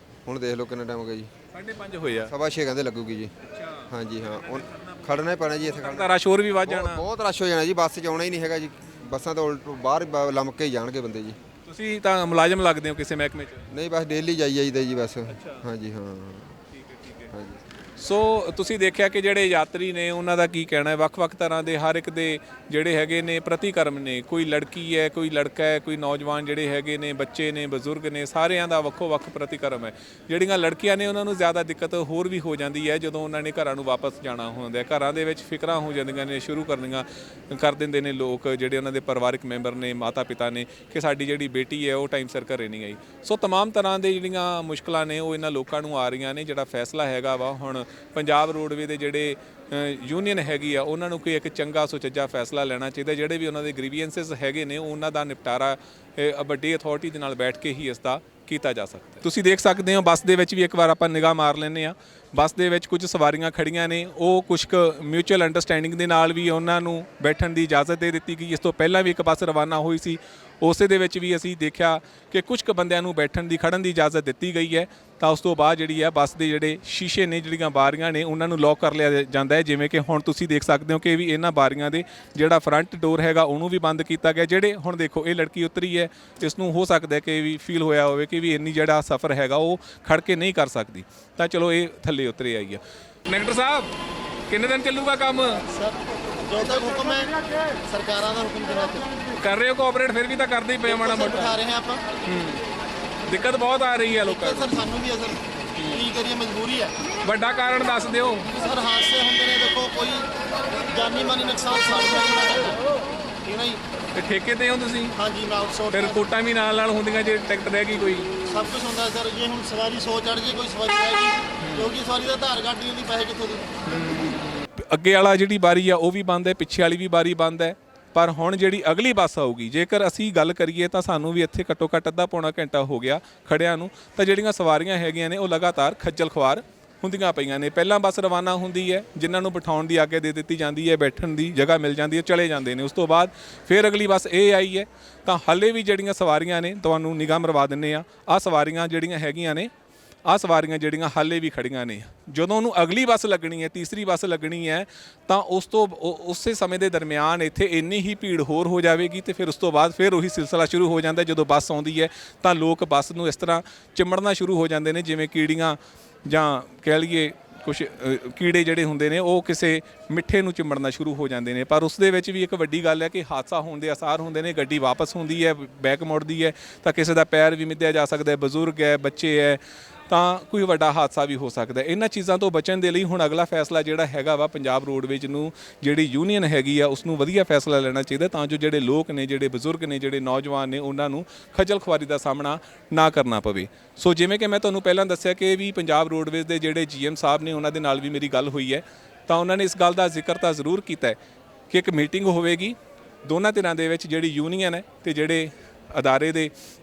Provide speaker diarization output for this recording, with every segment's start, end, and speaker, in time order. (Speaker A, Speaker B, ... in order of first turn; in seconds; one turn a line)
Speaker A: 0.3-1.3
Speaker B: 1.5-2.3
Speaker A: 2.3-3.3
Speaker B: 3.5-7.0
Speaker A: 3.9-6.1
Speaker A: 6.7-11.4
Speaker B: 11.7-13.7
Speaker A: 13.7-16.6
Speaker B: 15.3-15.6
Speaker B: 16.7-17.3
Speaker A: 17.3-17.6
Speaker B: 18.0-93.9
Speaker B: 94.5-95.6
Speaker C: 95.7-99.2
Speaker B: 99.4-101.6
Speaker C: 100.9-102.0
Speaker B: 102.2-102.6
Speaker B: 103.3-104.8
Speaker C: 104.2-107.0
Speaker B: 105.8-106.1
Speaker B: 107.2-108.5
Speaker C: 108.6-112.8
Speaker C: 113.4-113.8
Speaker B: 114.2-115.1
Speaker C: 115.2-116.2
Speaker B: 115.9-118.3
Speaker C: 118.5-123.7
Speaker B: 121.6-122.0
Speaker B: 123.9-149.7
Speaker B: 150.3-201.2
Speaker B: 201.7-206.5